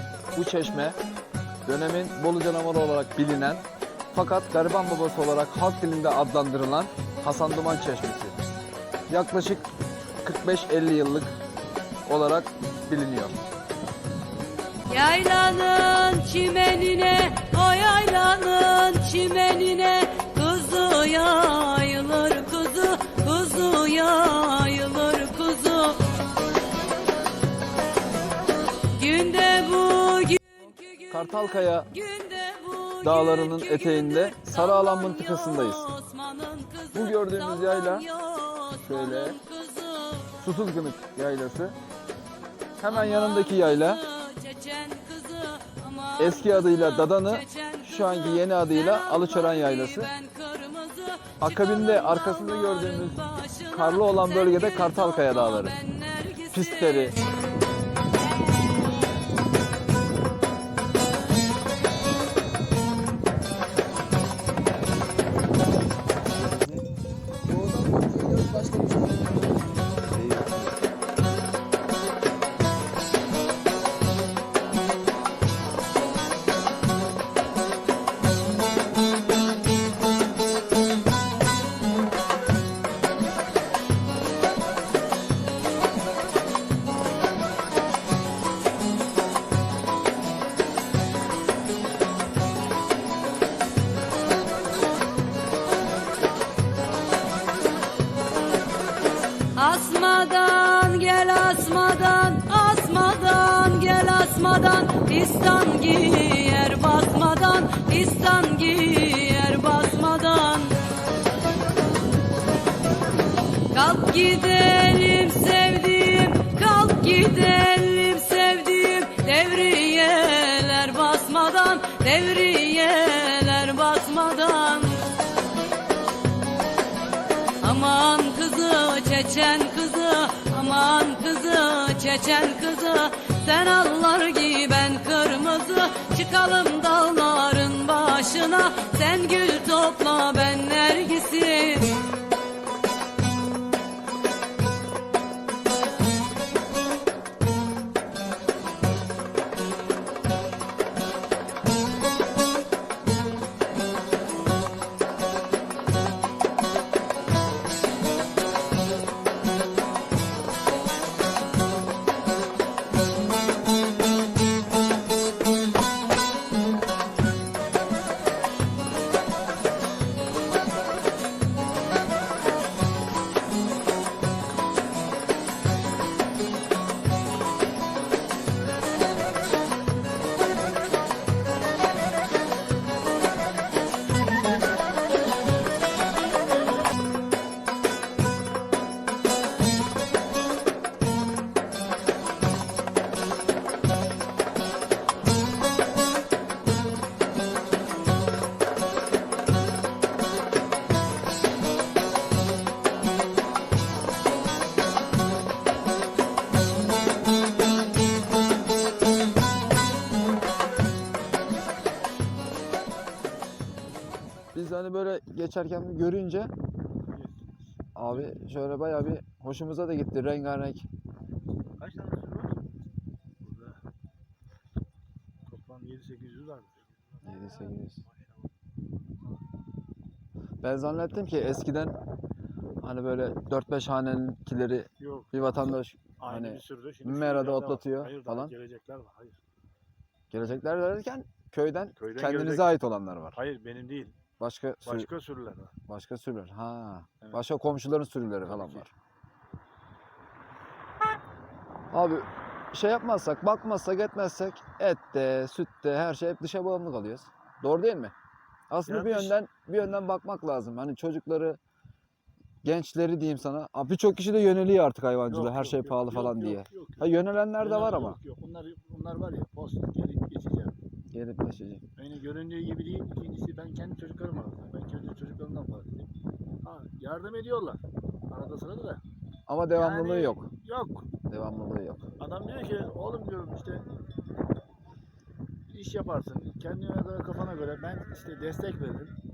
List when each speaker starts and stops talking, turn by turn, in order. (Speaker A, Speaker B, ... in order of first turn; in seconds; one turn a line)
Speaker A: 0.3-1.0
Speaker A: 1.6-8.4
Speaker A: 9.1-9.7
Speaker A: 10.2-11.4
Speaker A: 12.1-13.4
Speaker B: 14.9-26.0
Speaker B: 29.0-40.3
Speaker A: 31.1-31.9
Speaker A: 33.0-35.9
Speaker A: 36.9-38.0
Speaker A: 38.8-39.4
Speaker A: 40.4-41.8
Speaker A: 42.8-44.0
Speaker B: 42.8-57.1
Speaker A: 46.2-50.1
Speaker A: 51.4-55.8
Speaker A: 56.5-57.2
Speaker A: 66.5-66.8
Speaker A: 67.6-68.8
Speaker A: 70.1-70.8
Speaker B: 99.6-110.8
Speaker B: 113.7-125.0
Speaker B: 127.6-141.9
Speaker A: 214.5-216.5
Speaker C: 217.1-217.6
Speaker A: 217.9-220.9
Speaker C: 221.8-222.6
Speaker C: 223.4-223.8
Speaker C: 225.4-226.8
Speaker A: 227.2-228.0
Speaker A: 230.6-232.0
Speaker A: 232.8-238.5
Speaker C: 235.0-239.4
Speaker A: 240.3-243.4
Speaker C: 241.9-242.7
Speaker C: 243.3-244.2
Speaker A: 244.4-245.1
Speaker C: 244.8-245.7
Speaker A: 245.9-248.9
Speaker C: 248.5-248.9
Speaker A: 251.9-258.1
Speaker A: 258.7-261.6
Speaker C: 258.8-259.4
Speaker A: 262.6-268.2
Speaker C: 265.3-270.8
Speaker A: 271.1-271.8
Speaker C: 271.9-276.1
Speaker C: 276.6-279.0
Speaker A: 279.5-280.5
Speaker C: 279.7-281.1
Speaker A: 281.3-282.1
Speaker C: 282.2-283.8
Speaker C: 285.7-289.1